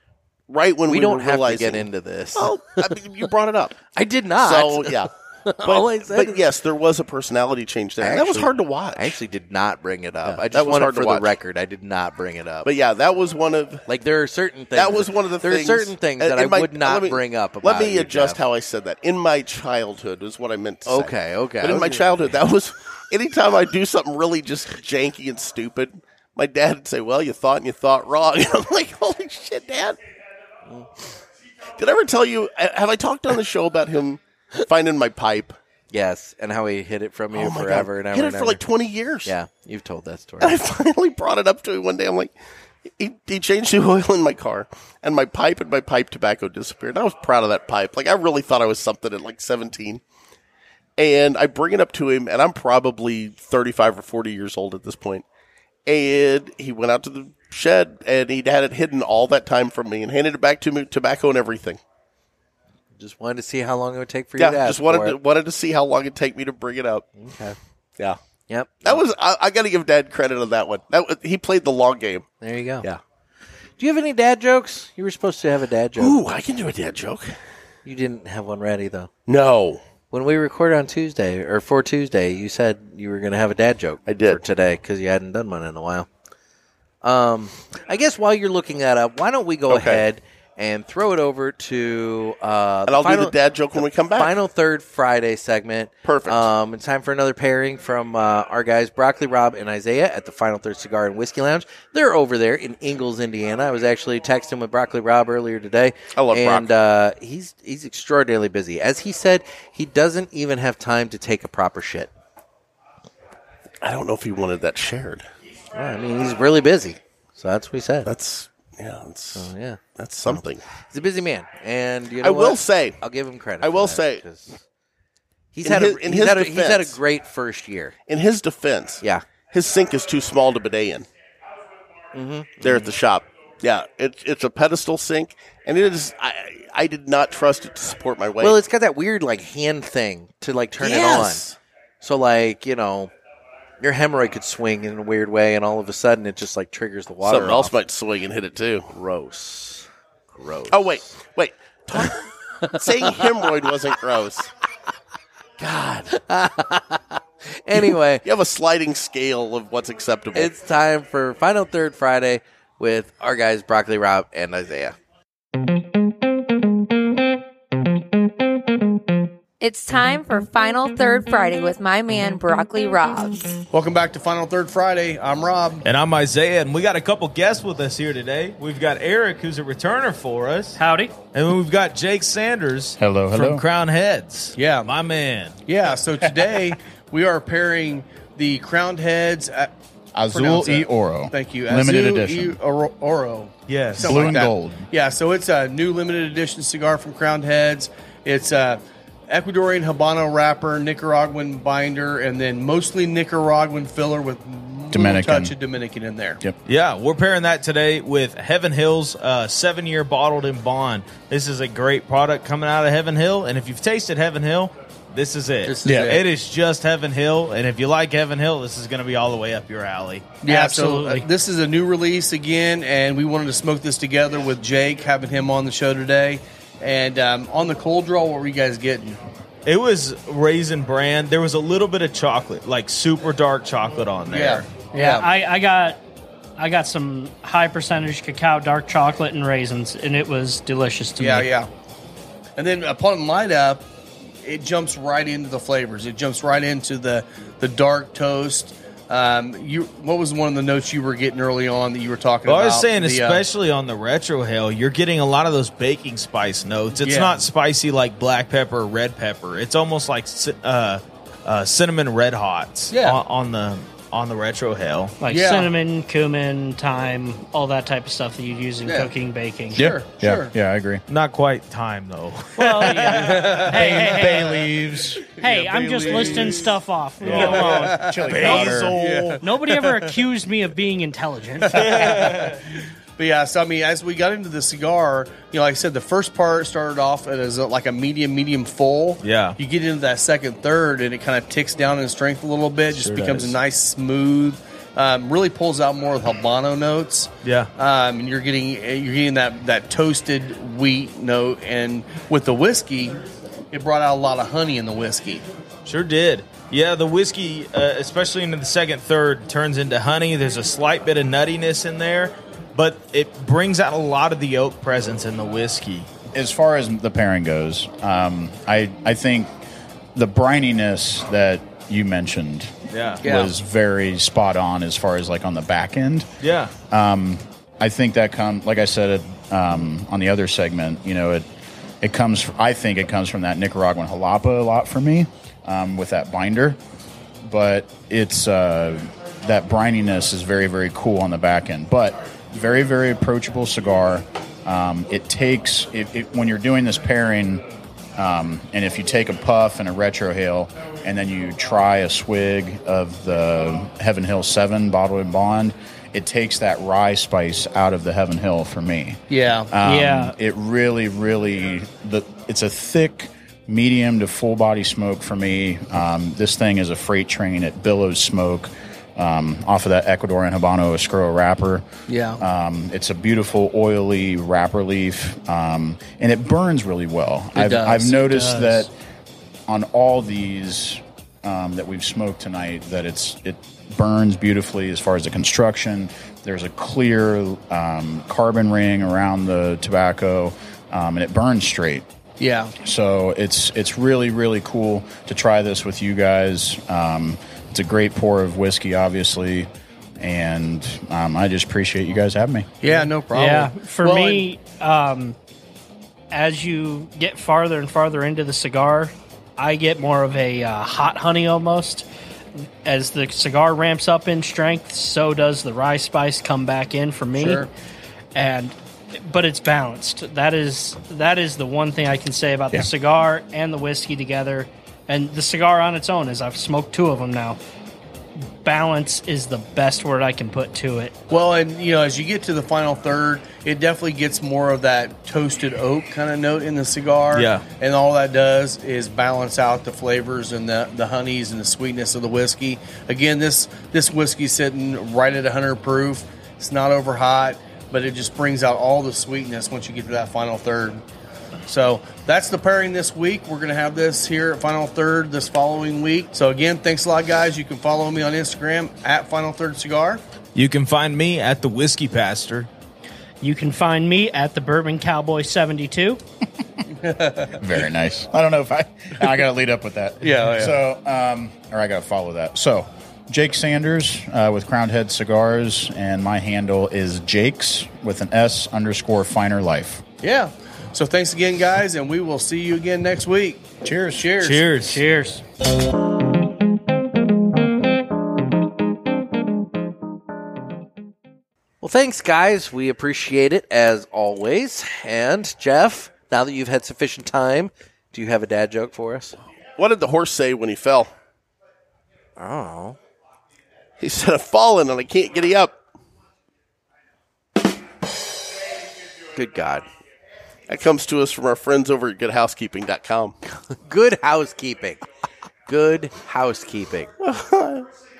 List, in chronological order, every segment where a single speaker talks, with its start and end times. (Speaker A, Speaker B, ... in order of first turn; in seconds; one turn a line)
Speaker A: 0.5-3.8
Speaker B: 0.9-3.0
Speaker B: 3.9-6.4
Speaker A: 4.4-5.1
Speaker A: 5.6-9.2
Speaker B: 8.0-12.7
Speaker A: 10.2-11.3
Speaker A: 12.6-13.9
Speaker B: 13.9-18.4
Speaker A: 14.7-30.0
Speaker B: 20.9-22.4
Speaker A: 31.7-35.6
Speaker B: 35.9-38.6
Speaker A: 37.3-39.3
Speaker B: 39.2-40.6
Speaker A: 40.4-42.3
Speaker A: 42.9-50.0
Speaker A: 51.0-55.2
Speaker A: 55.9-61.8
Speaker B: 63.0-65.2
Speaker A: 64.4-67.0
Speaker B: 67.2-67.5
Speaker B: 68.5-69.0
Speaker A: 68.8-72.2
Speaker B: 72.4-72.9
Speaker B: 73.8-76.2
Speaker A: 76.0-77.3
Speaker B: 77.8-79.1
Speaker A: 79.3-79.8
Speaker B: 80.1-86.1
Speaker A: 84.1-84.4
Speaker B: 87.0-112.1
Speaker A: 89.7-90.0
Speaker A: 92.8-94.3
Speaker A: 96.0-96.5
Speaker A: 106.1-106.7
Speaker A: 113.8-115.2
Speaker B: 115.7-118.1
Speaker A: 118.0-120.6
Speaker B: 119.3-124.6
Speaker A: 122.2-123.0
Speaker A: 123.6-124.2
Speaker B: 125.5-127.9
Speaker A: 125.6-127.0
Speaker A: 128.1-131.1
Speaker B: 132.1-132.9
Speaker A: 132.6-138.6
Speaker B: 138.4-141.5
Speaker A: 140.8-141.6
Speaker B: 142.0-143.1
Speaker B: 143.8-147.7
Speaker A: 147.2-148.9
Speaker B: 148.9-151.0
Speaker A: 150.7-154.5
Speaker B: 152.8-153.3
Speaker A: 155.6-156.1
Speaker B: 156.1-158.2
Speaker A: 157.8-160.5
Speaker B: 160.3-164.9
Speaker C: 169.6-173.4
Speaker D: 173.7-175.8
Speaker E: 175.8-180.8
Speaker F: 180.8-181.1
Speaker E: 181.3-185.6
Speaker G: 183.0-183.6
Speaker D: 184.5-184.9
Speaker D: 185.7-189.7
Speaker G: 190.1-192.6
Speaker D: 190.3-206.4
Speaker E: 193.7-194.3
Speaker G: 194.0-194.8
Speaker G: 204.9-205.5
Speaker E: 206.7-220.3
Speaker D: 215.6-216.2
Speaker D: 220.4-229.2
Speaker F: 220.4-221.2
Speaker E: 229.6-234.8
Speaker D: 234.3-235.3
Speaker F: 234.9-236.0
Speaker F: 236.6-241.5
Speaker D: 241.2-241.7
Speaker D: 242.6-243.8
Speaker D: 244.4-253.4
Speaker E: 252.4-265.1
Speaker D: 257.0-257.4
Speaker D: 262.9-263.2
Speaker F: 265.2-269.9
Speaker D: 265.2-265.7
Speaker G: 269.7-271.0
Speaker D: 269.8-270.5
Speaker E: 271.1-273.1
Speaker F: 272.6-274.7
Speaker D: 273.1-274.5
Speaker G: 273.7-275.3
Speaker F: 275.3-278.8
Speaker D: 275.4-276.6
Speaker G: 277.2-279.3
Speaker E: 277.3-279.3
Speaker D: 277.4-279.4
Speaker F: 279.4-282.2
Speaker D: 281.6-282.4
Speaker E: 281.7-282.6
Speaker D: 283.2-303.2
Speaker E: 289.2-289.6
Speaker E: 292.9-293.5
Speaker E: 297.4-297.7
Speaker D: 303.7-305.4
Speaker E: 305.8-316.1
Speaker G: 316.3-319.5
Speaker G: 320.1-326.3
Speaker E: 322.9-323.2
Speaker D: 323.2-323.5
Speaker E: 326.4-326.7
Speaker G: 326.8-331.4
Speaker G: 332.0-336.8
Speaker G: 337.4-347.6
Speaker G: 348.1-359.2
Speaker D: 359.3-359.7
Speaker G: 359.7-371.8
Speaker F: 359.8-360.3
Speaker D: 372.1-372.4
Speaker G: 372.4-378.9
Speaker D: 377.6-378.3
Speaker F: 378.1-378.8
Speaker G: 379.7-392.0
Speaker D: 392.4-392.7
Speaker G: 392.8-399.7
Speaker G: 400.2-402.7
Speaker D: 402.8-404.4
Speaker F: 403.3-405.4
Speaker F: 406.3-412.1
Speaker F: 412.6-417.7
Speaker D: 417.4-417.7
Speaker F: 418.3-427.6
Speaker F: 428.6-431.1
Speaker D: 431.3-451.0
Speaker E: 437.3-437.6
Speaker D: 451.6-460.2
Speaker E: 460.5-462.7
Speaker F: 463.4-466.2
Speaker D: 467.0-467.6
Speaker G: 467.6-480.0
Speaker D: 470.2-470.8
Speaker D: 480.2-484.8
Speaker G: 483.8-484.2
Speaker E: 484.4-485.0
Speaker F: 484.8-485.4
Speaker B: 491.8-499.4
Speaker A: 499.8-501.1
Speaker B: 502.4-503.0
Speaker A: 504.0-505.8
Speaker B: 509.3-509.8
Speaker A: 510.7-513.4
Speaker B: 513.8-515.0
Speaker B: 515.7-517.1
Speaker A: 517.2-517.9